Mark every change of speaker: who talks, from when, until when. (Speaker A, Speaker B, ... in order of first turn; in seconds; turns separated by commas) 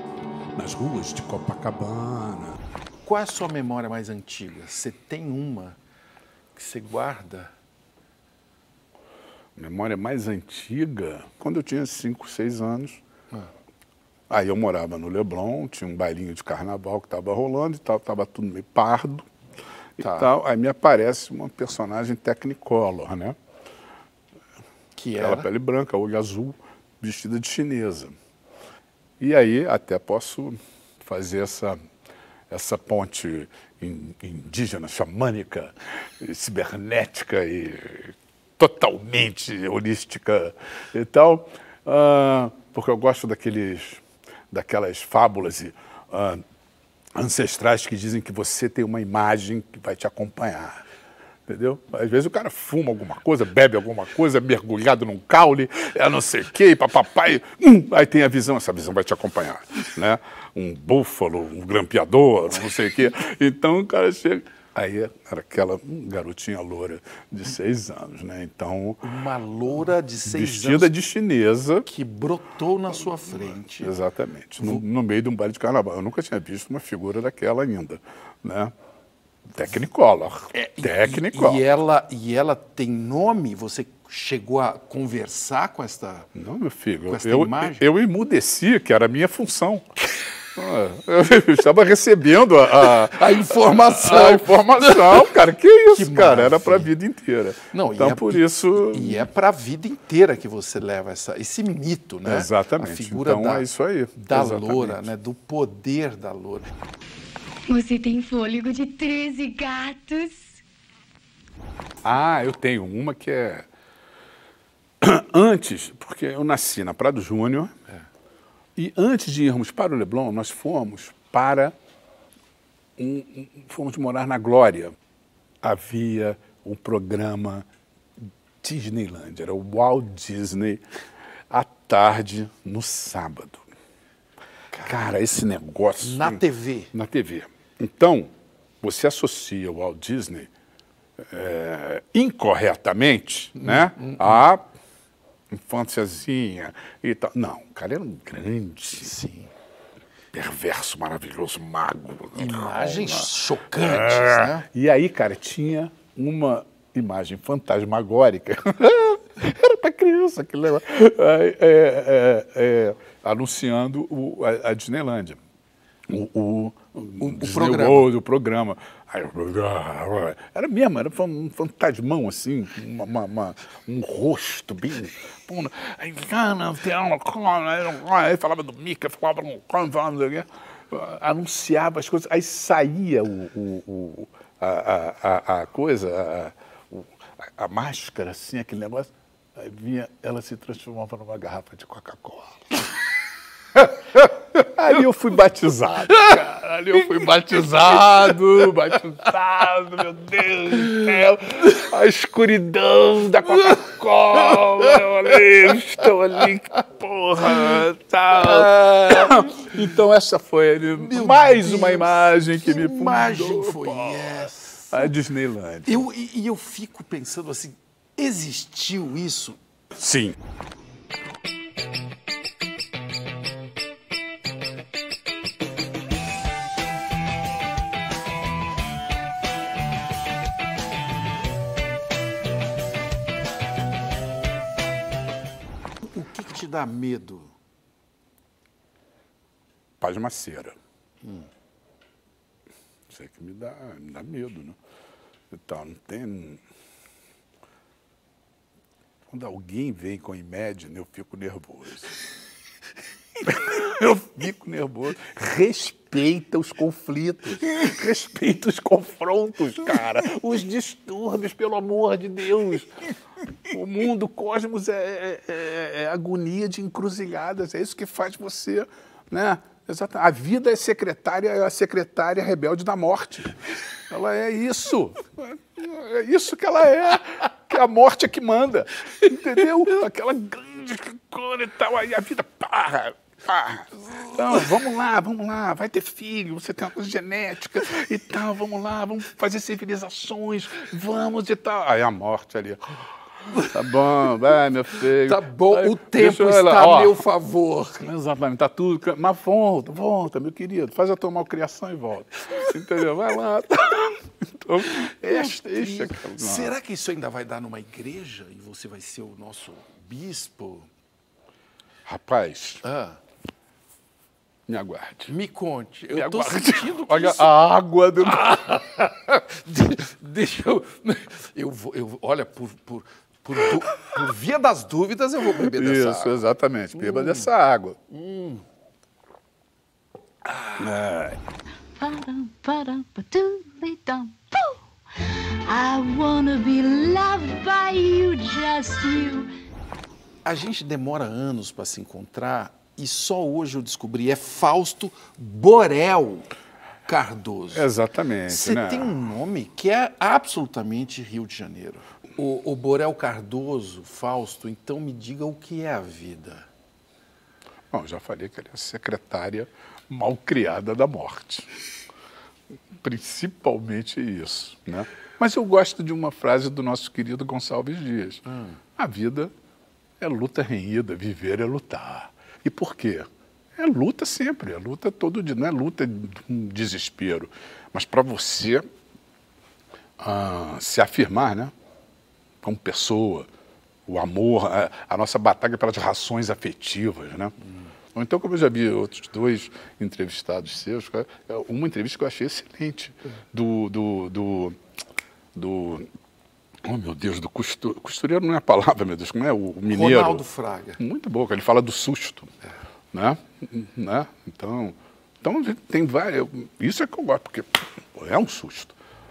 Speaker A: 0.5-2.6, Speaker B: 3.0-5.8, Speaker B: 6.5-7.5, Speaker A: 9.6-13.0, Speaker A: 14.3-19.3, Speaker A: 20.0-23.4, Speaker B: 20.0-20.3, Speaker B: 24.9-25.5, Speaker A: 25.2-28.1, Speaker A: 29.2-31.8, Speaker A: 32.5-46.4, Speaker A: 47.1-50.8, Speaker A: 51.5-69.0, Speaker B: 69.0-70.9, Speaker A: 70.2-71.9, Speaker B: 71.8-73.9, Speaker A: 73.4-78.7, Speaker A: 79.5-81.6, Speaker B: 80.5-86.3, Speaker A: 86.3-90.0, Speaker B: 87.1-87.8, Speaker A: 90.5-99.3, Speaker B: 92.8-95.3, Speaker B: 95.9-96.9, Speaker B: 97.7-103.7, Speaker A: 102.2-105.1, Speaker B: 104.2-106.7, Speaker C: 107.7-110.4, Speaker A: 112.0-113.7, Speaker A: 115.0-117.7, Speaker A: 118.8-121.7, Speaker A: 123.0-124.9, Speaker A: 125.6-127.7, Speaker A: 128.6-130.8, Speaker A: 131.5-133.6, Speaker A: 134.8-136.4, Speaker B: 136.0-136.9, Speaker A: 136.9-140.5, Speaker A: 141.2-144.6, Speaker B: 143.6-144.4, Speaker A: 145.5-149.1, Speaker B: 149.0-149.5, Speaker A: 150.3-165.4, Speaker B: 152.3-154.7, Speaker A: 166.1-193.0, Speaker B: 167.2-168.1, Speaker A: 194.5-216.0, Speaker B: 208.8-209.3, Speaker B: 211.0-215.1, Speaker B: 215.8-219.6, Speaker A: 219.9-220.4, Speaker B: 236.0-237.5, Speaker A: 240.0-240.8, Speaker A: 243.1-244.8, Speaker A: 245.5-246.6, Speaker A: 249.3-252.2, Speaker A: 253.4-262.9, Speaker A: 263.7-273.6, Speaker A: 274.1-293.0, Speaker A: 293.6-297.2, Speaker B: 295.2-298.1, Speaker A: 298.0-306.7, Speaker B: 305.0-310.9, Speaker A: 312.1-312.8, Speaker B: 312.8-313.2, Speaker A: 314.7-315.3, Speaker B: 315.3-317.5, Speaker A: 316.1-318.5, Speaker B: 318.2-326.4, Speaker A: 325.6-328.0, Speaker B: 326.9-327.5, Speaker B: 328.1-328.6, Speaker A: 330.8-331.4, Speaker C: 332.0-339.5, Speaker B: 340.4-346.5, Speaker B: 347.1-347.9, Speaker A: 347.7-349.1, Speaker B: 348.5-356.7, Speaker A: 357.9-361.7, Speaker A: 363.0-368.4, Speaker B: 368.5-368.8, Speaker A: 368.9-369.5, Speaker A: 370.2-378.9, Speaker A: 380.2-381.7, Speaker A: 382.6-383.5, Speaker A: 384.1-387.5, Speaker A: 388.1-394.8, Speaker A: 395.5-396.1, Speaker A: 396.8-400.4, Speaker B: 399.9-401.0, Speaker A: 401.0-402.5, Speaker A: 403.1-408.9